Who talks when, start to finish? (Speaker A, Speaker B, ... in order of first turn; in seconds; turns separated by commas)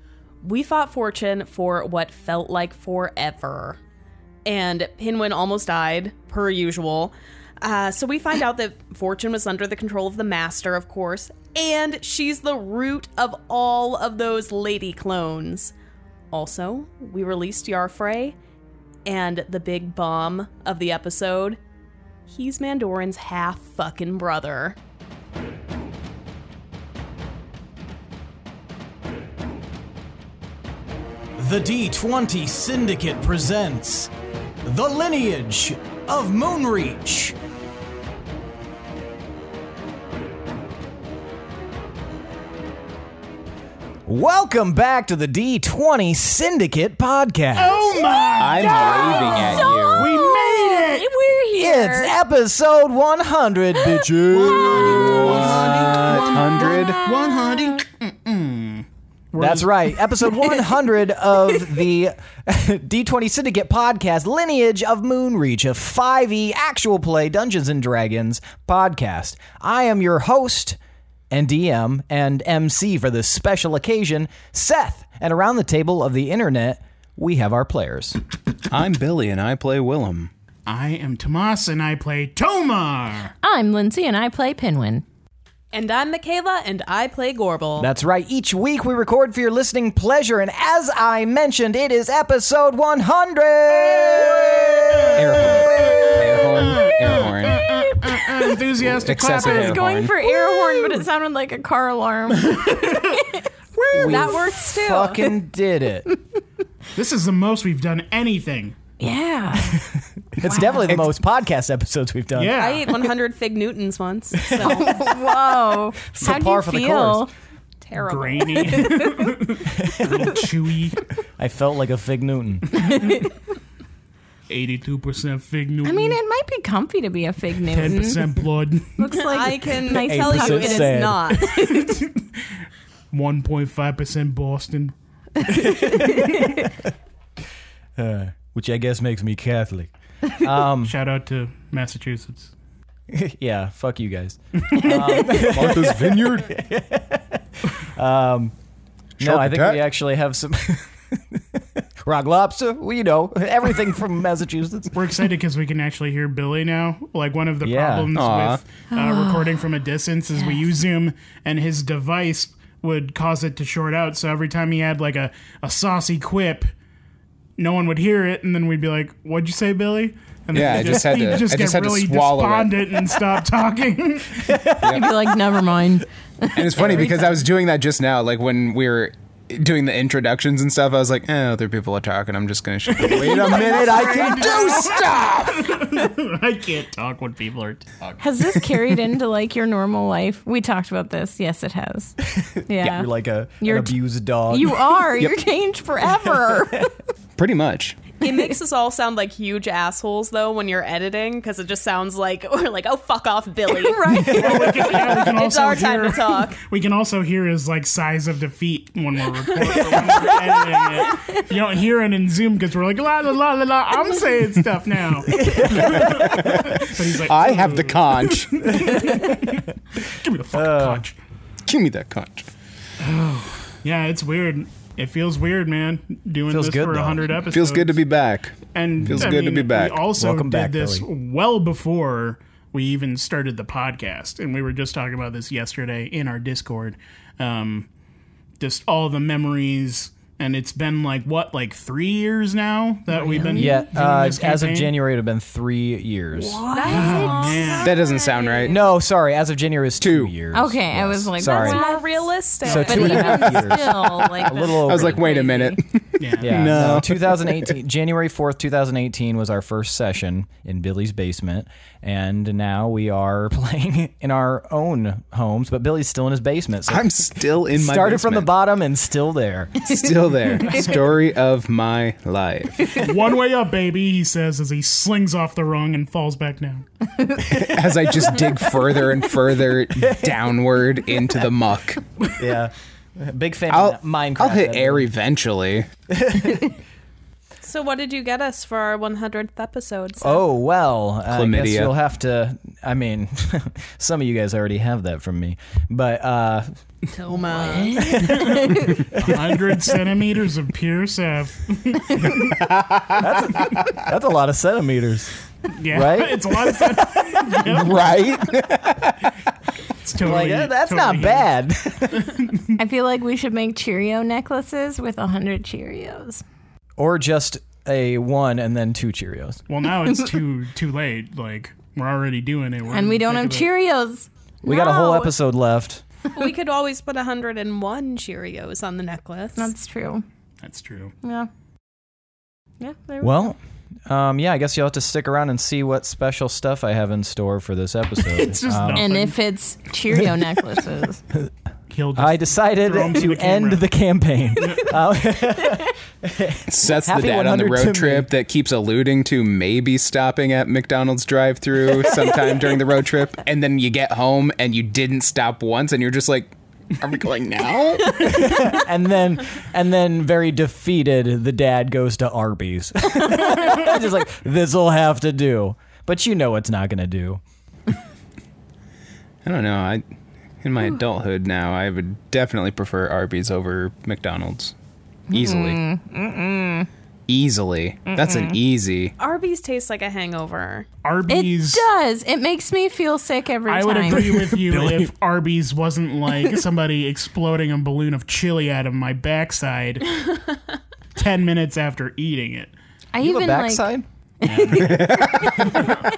Speaker A: 0.4-3.8, Speaker A: 4.5-15.7, Speaker A: 16.3-18.4, Speaker A: 19.1-21.6, Speaker A: 22.3-24.8, Speaker B: 31.4-34.1, Speaker B: 34.6-37.4, Speaker B: 44.0-48.0, Speaker C: 47.6-51.1, Speaker D: 48.4-50.1, Speaker E: 48.5-52.1, Speaker B: 51.5-56.0, Speaker E: 53.8-57.8, Speaker C: 54.3-60.0, Speaker D: 54.6-57.0, Speaker B: 59.4-70.8, Speaker B: 71.3-78.2, Speaker D: 78.7-80.3, Speaker C: 80.7-83.3, Speaker E: 83.4-85.0, Speaker A: 85.7-87.9, Speaker B: 87.8-96.1, Speaker C: 95.0-101.0, Speaker D: 95.1-97.7, Speaker E: 97.1-98.3, Speaker D: 98.8-100.2, Speaker E: 99.2-103.5, Speaker C: 102.4-103.2, Speaker C: 103.8-104.1, Speaker B: 103.9-106.1, Speaker A: 104.0-105.3, Speaker C: 107.0-108.8, Speaker E: 109.0-109.9, Speaker B: 109.7-112.6, Speaker E: 110.4-110.9, Speaker C: 112.3-112.9, Speaker A: 112.6-115.0, Speaker B: 114.5-115.0, Speaker E: 114.5-117.3, Speaker B: 116.2-117.3, Speaker A: 117.8-118.9, Speaker C: 118.0-121.0, Speaker E: 118.8-119.3, Speaker B: 119.8-120.2, Speaker B: 121.4-122.9, Speaker E: 122.8-123.2, Speaker C: 124.5-126.2, Speaker E: 125.8-128.4, Speaker C: 127.7-129.0, Speaker E: 129.0-132.0, Speaker A: 129.1-131.5, Speaker B: 129.9-131.3, Speaker C: 131.4-132.5, Speaker C: 133.1-134.9, Speaker E: 135.5-136.4, Speaker B: 135.5-136.6, Speaker B: 138.0-140.9, Speaker C: 140.8-142.5, Speaker B: 143.1-148.5, Speaker E: 144.8-145.4, Speaker D: 145.3-146.5, Speaker D: 149.2-149.8, Speaker B: 149.2-155.1, Speaker C: 154.9-166.7, Speaker B: 157.6-158.1, Speaker D: 158.1-158.6, Speaker E: 158.9-159.7, Speaker E: 160.4-160.7, Speaker C: 167.6-174.6, Speaker D: 170.5-172.9, Speaker B: 174.4-175.0, Speaker E: 174.7-177.4, Speaker D: 174.8-175.1, Speaker D: 176.5-185.7, Speaker C: 182.9-187.9, Speaker B: 183.5-184.9, Speaker E: 188.2-193.1, Speaker B: 192.4-195.2, Speaker E: 193.6-196.9, Speaker D: 195.2-195.4, Speaker D: 197.4-198.0, Speaker A: 198.2-206.6, Speaker E: 198.2-198.5, Speaker C: 204.0-221.2, Speaker B: 215.3-216.9, Speaker D: 215.6-218.8, Speaker B: 218.6-219.6, Speaker B: 220.5-221.1, Speaker D: 221.7-222.5, Speaker C: 223.0-228.0, Speaker B: 226.5-227.3, Speaker D: 227.4-230.0, Speaker C: 228.7-237.9, Speaker B: 229.0-229.4, Speaker B: 230.2-231.1, Speaker C: 238.6-245.0, Speaker E: 243.1-243.9, Speaker B: 243.6-246.6, Speaker E: 246.3-248.8, Speaker A: 246.7-248.7, Speaker C: 246.9-247.9, Speaker D: 247.8-248.8, Speaker B: 248.6-251.9, Speaker D: 250.0-250.3, Speaker E: 250.5-255.8, Speaker A: 251.4-253.5, Speaker C: 252.6-253.3, Speaker B: 252.7-255.3, Speaker D: 254.4-257.7, Speaker C: 256.2-257.0, Speaker B: 256.4-270.0, Speaker D: 266.9-268.5, Speaker D: 269.8-273.1, Speaker C: 272.9-276.9, Speaker D: 277.4-282.0, Speaker B: 280.0-280.3, Speaker B: 282.3-285.1, Speaker D: 283.7-285.9, Speaker B: 286.1-286.8, Speaker A: 287.6-290.4, Speaker B: 290.2-296.7, Speaker D: 291.3-291.9, Speaker A: 297.1-298.1, Speaker E: 297.6-299.1, Speaker B: 297.9-299.8, Speaker C: 298.2-302.3, Speaker D: 302.5-303.9, Speaker B: 303.2-305.3, Speaker C: 305.7-308.0, Speaker B: 305.9-307.5, Speaker D: 307.6-309.2, Speaker C: 310.0-311.5, Speaker B: 310.2-312.4, Speaker C: 312.1-312.8, Speaker E: 312.8-316.4, Speaker B: 317.0-319.6, Speaker C: 319.7-323.7, Speaker E: 322.9-325.3, Speaker B: 324.6-326.0, Speaker A: 326.3-329.7, Speaker E: 329.6-330.2, Speaker C: 330.6-331.1, Speaker E: 331.2-331.5, Speaker E: 332.8-333.4, Speaker B: 333.2-339.1, Speaker C: 338.2-339.4, Speaker E: 338.9-341.2, Speaker C: 341.9-343.9, Speaker B: 342.2-348.3, Speaker C: 344.6-344.9, Speaker D: 346.7-358.2, Speaker B: 358.2-367.4, Speaker D: 369.4-370.0, Speaker D: 370.6-374.8, Speaker D: 375.3-375.8, Speaker E: 375.3-376.9, Speaker D: 377.3-379.1, Speaker E: 378.1-378.6, Speaker A: 379.2-380.9, Speaker C: 381.0-381.9, Speaker E: 381.3-384.5, Speaker C: 383.7-390.4, Speaker B: 384.1-385.1, Speaker C: 391.2-392.7, Speaker E: 393.1-395.9, Speaker B: 393.2-394.1, Speaker C: 394.4-395.9, Speaker D: 394.7-395.7